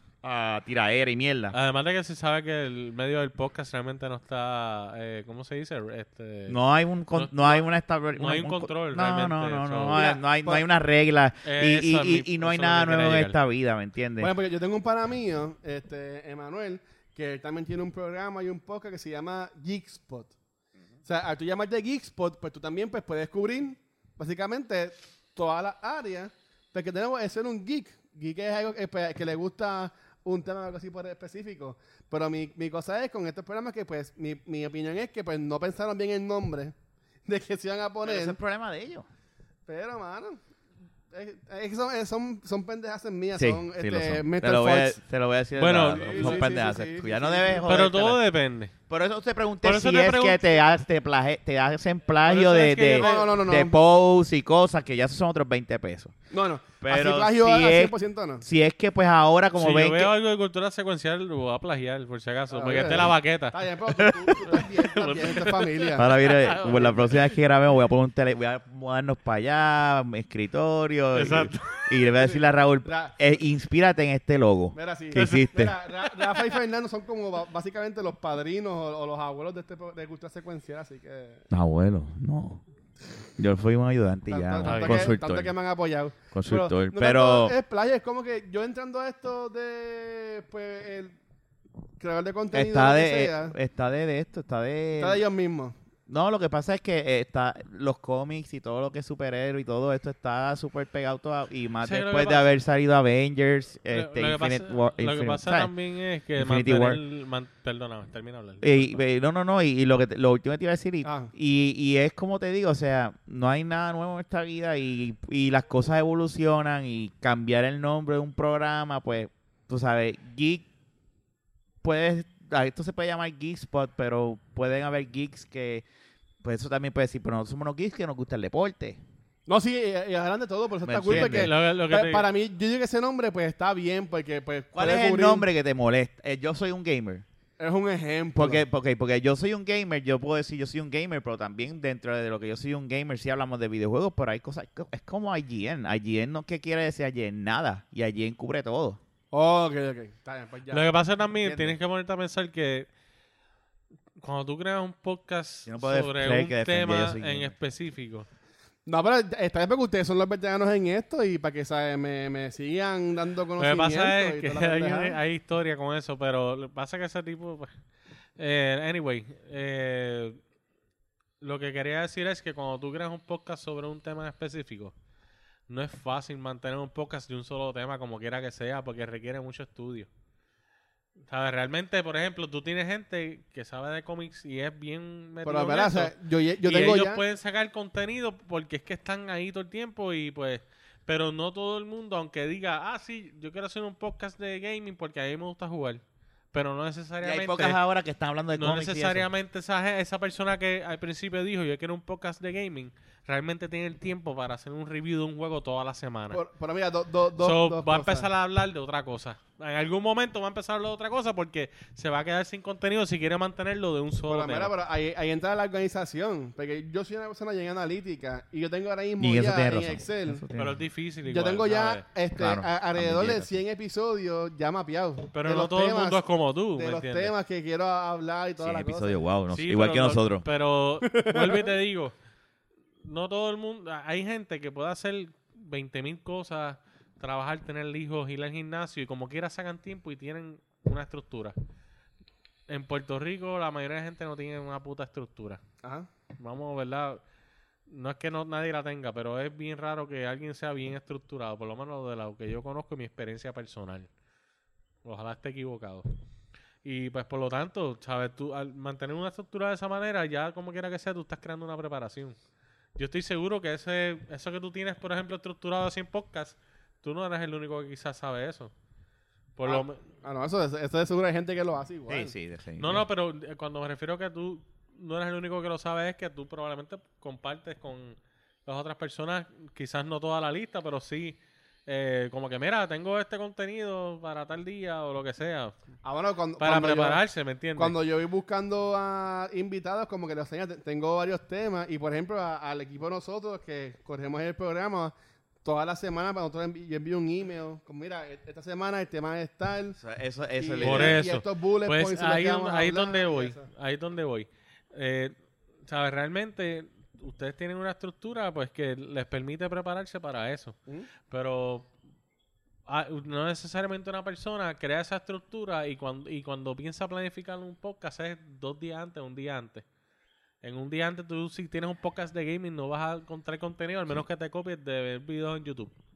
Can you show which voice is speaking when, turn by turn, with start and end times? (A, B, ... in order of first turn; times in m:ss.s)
0:00.2-0:01.6 A
0:01.5-0:06.6 B
0:06.5-0:14.3 A
0:07.1-0:10.0 B
0:09.9-0:10.6 C
0:11.4-0:13.4 B
0:14.2-0:20.3 C
0:21.1-0:36.7 C
0:37.3-0:38.4 C
0:38.0-0:39.1 A
0:39.7-0:40.4 C
0:41.1-0:45.0 C
0:43.4-0:48.2 A
0:45.6-0:46.5 B
0:45.8-0:47.7 C
0:47.6-0:48.7 B
0:48.9-0:56.2 A
0:49.6-0:50.5 B
0:52.2-0:53.3 B
0:52.9-0:53.8 C
0:56.3-0:58.4 C
0:56.8-1:00.1 A
0:59.6-1:03.6 B
1:02.5-1:07.1 C
1:02.8-1:03.1 A
1:04.0-1:04.4 A
1:04.4-1:07.1 B
1:06.0-1:15.8 A
1:11.1-1:11.9 B
1:12.2-1:13.2 C
1:14.7-1:21.4 C
1:15.1-1:15.5 B
1:16.0-1:16.4 B
1:21.5-1:22.6 A
1:23.4-1:25.5 A
1:24.3-1:31.1 C
1:24.6-1:25.1 B
1:26.3-1:27.6 A
1:32.0-1:33.6 C
1:32.5-1:35.2 A
1:35.0-1:35.7 C
1:36.1-1:45.7 A
1:41.8-1:42.5 B
1:43.9-1:49.0 B
1:46.4-1:47.0 A
1:48.6-2:00.6 A
1:51.0-1:51.3 C
2:01.8-2:05.8 A
2:06.4-2:09.0 A
2:09.5-2:15.4 C
2:10.8-2:11.5 A
2:11.1-2:12.3 B
2:14.8-2:17.2 A
2:17.6-2:18.6 C
2:18.4-2:29.0 A
2:29.3-2:30.9 C
2:30.7-2:32.9 B
2:34.2-2:38.3 B
2:35.6-2:37.5 A
2:38.9-2:45.2 C
2:43.6-2:47.7 B
2:48.4-2:50.4 B
2:51.4-2:54.9 B
2:55.7-3:00.1 B
3:01.3-3:17.8 B
3:05.4-3:07.2 C
3:17.2-3:19.3 A
3:18.6-3:26.4 B
3:26.3-3:28.3 C
3:27.4-3:34.7 B
3:34.3-3:40.4 C
3:39.2-3:40.8 A
3:40.6-3:42.0 B
3:41.3-3:46.2 C
3:42.3-3:43.6 A
3:45.3-3:47.3 B
3:46.8-3:49.1 C
3:48.6-3:50.4 A
3:49.5-3:52.1 B
3:51.0-3:51.7 C
3:53.0-4:01.6 B
4:02.7-4:05.6 B
4:05.8-4:06.1 C
4:06.4-4:07.2 B
4:07.9-4:14.1 B
4:15.0-4:16.1 B
4:16.8-4:22.4 B
4:23.0-4:28.7 B
4:29.6-4:30.0 B
4:29.6-4:32.3 C
4:32.1-4:33.0 A
4:32.8-4:45.8 B
4:46.0-4:47.2 C
4:46.6-4:47.9 B
4:47.8-5:00.0 C
5:00.0-5:01.2 A
5:00.6-5:03.7 C
5:00.8-5:05.4 B
5:05.9-5:11.9 B
5:12.9-5:19.8 B
5:20.6-5:25.9 B